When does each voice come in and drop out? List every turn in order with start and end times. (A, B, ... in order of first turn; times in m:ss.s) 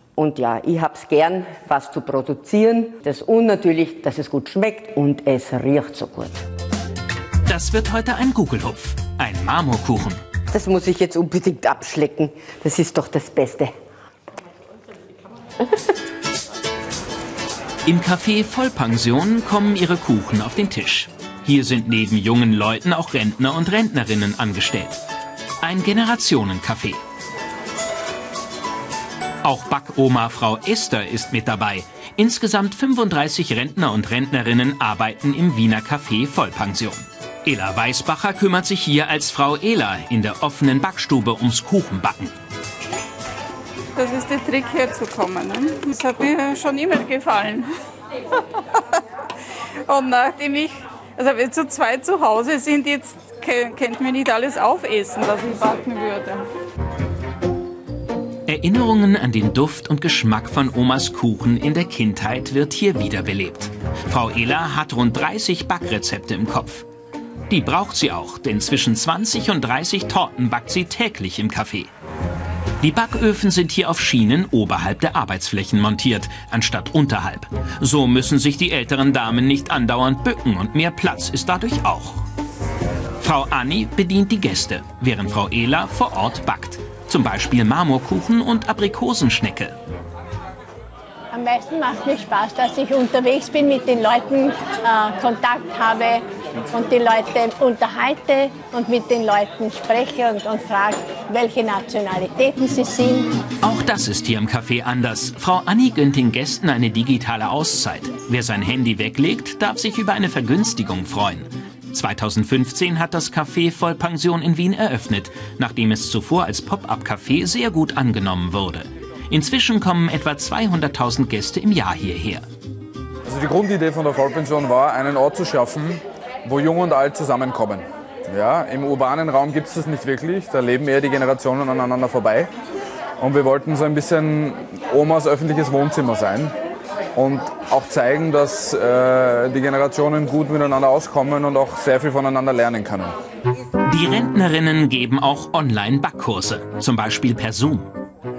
0:00.2-0:06.4 A
0:07.5-0:10.2 B
0:10.5-0:13.7 A
0:17.9-0:25.0 B
0:25.6-0:27.0 B
0:29.4-0:42.3 B
0:44.0-0:47.7 C
0:48.4-0:49.0 C
0:49.8-0:56.4 C
0:58.5-1:06.8 B
1:07.5-1:11.9 B
1:12.8-1:22.2 B
1:23.2-1:29.7 B
1:31.3-1:43.3 D
1:43.6-2:02.4 B
2:03.2-2:12.5 E
2:13.2-2:16.6 E
2:17.2-2:23.2 E
2:23.8-2:27.9 B